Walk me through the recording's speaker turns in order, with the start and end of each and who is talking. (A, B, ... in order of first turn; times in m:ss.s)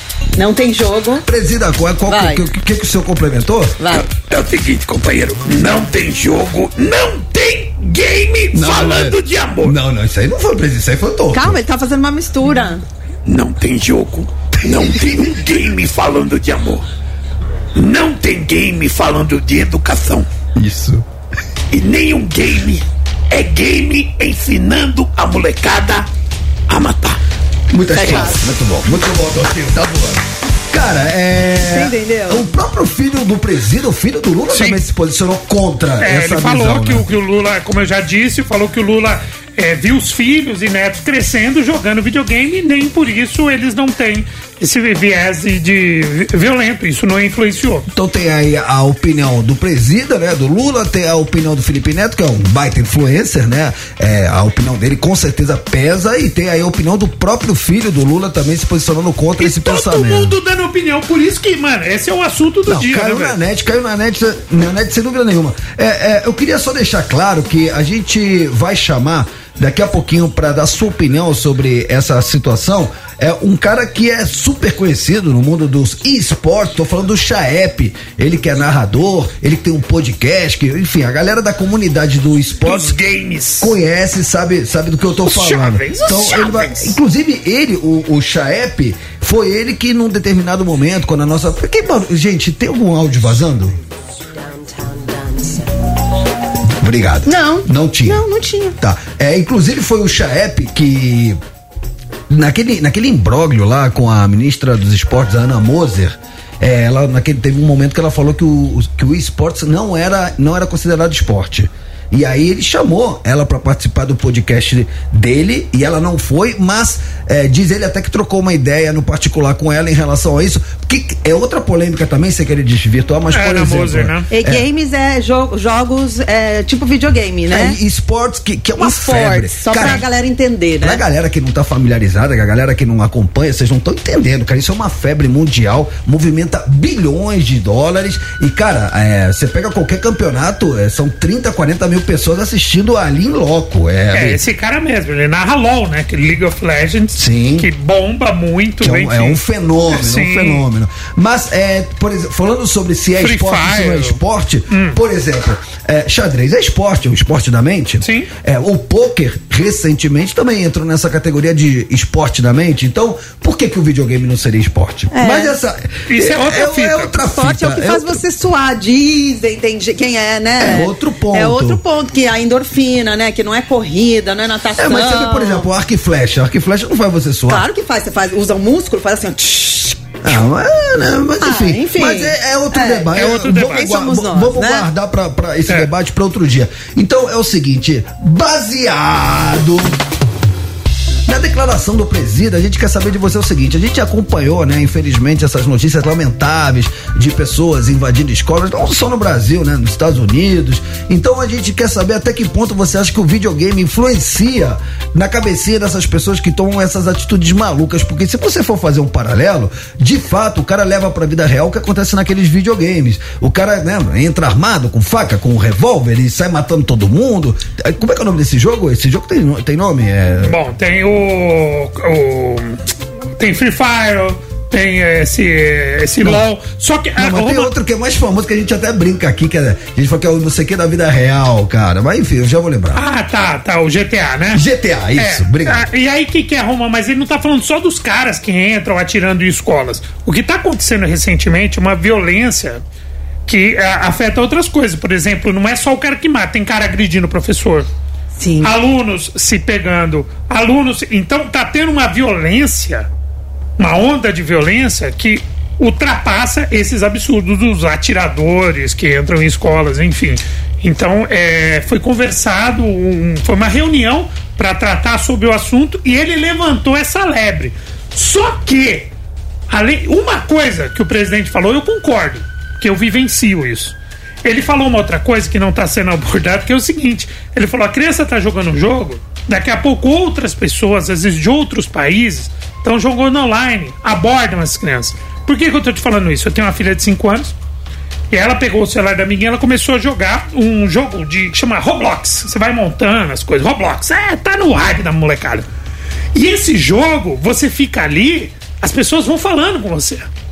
0:00.4-0:01.2 A
0:01.2-0:03.8 B
0:02.1-0:02.4 A
0:03.8-0:04.1 A
0:03.9-0:09.8 C
0:08.5-0:11.6 B
0:11.3-0:12.8 A
0:13.3-0:16.8 C
0:17.8-0:20.3 C
0:20.6-0:21.0 B
0:21.7-0:26.1 C
0:26.7-0:27.2 C
0:27.7-0:37.1 B
0:27.9-0:28.4 A
0:31.6-0:32.5 A
0:34.5-0:34.8 D
0:36.0-0:47.9 D
0:47.9-1:00.4 B
0:59.4-1:03.4 D
1:02.7-1:23.0 B
1:22.6-1:23.7 D
1:23.6-1:33.7 B
1:25.2-1:27.0 D
1:36.8-1:38.2 B
1:37.3-1:38.8 A
1:38.8-1:41.4 B
1:42.3-2:04.6 B
2:03.3-2:04.3 D
2:04.3-2:07.8 A
2:07.5-2:10.0 B
2:08.8-2:11.0 A
2:10.8-2:24.4 B
2:24.1-2:30.6 D
2:27.2-2:27.7 B
2:28.8-2:48.2 B
2:33.2-2:35.0 D
2:38.0-2:38.3 D
2:45.1-2:45.6 A
2:46.1-2:47.1 D
2:47.3-2:55.7 A
2:50.6-2:51.8 B
2:54.8-2:57.6 B
2:57.5-3:00.2 A
3:00.2-3:10.0 B
3:01.4-3:04.9 A
3:03.1-3:03.9 D
3:11.3-3:40.6 B
3:40.4-3:42.8 D
3:43.4-3:47.7 D
3:47.2-3:53.0 B
3:52.9-3:54.6 D
3:54.5-3:55.9 B
3:55.2-4:02.8 D
4:03.5-4:07.9 D
4:08.4-4:08.7 A
4:08.6-4:13.1 D
4:13.8-4:29.1 D
4:29.7-4:47.6 D
4:48.3-4:55.7 D
4:56.3-5:00.3 D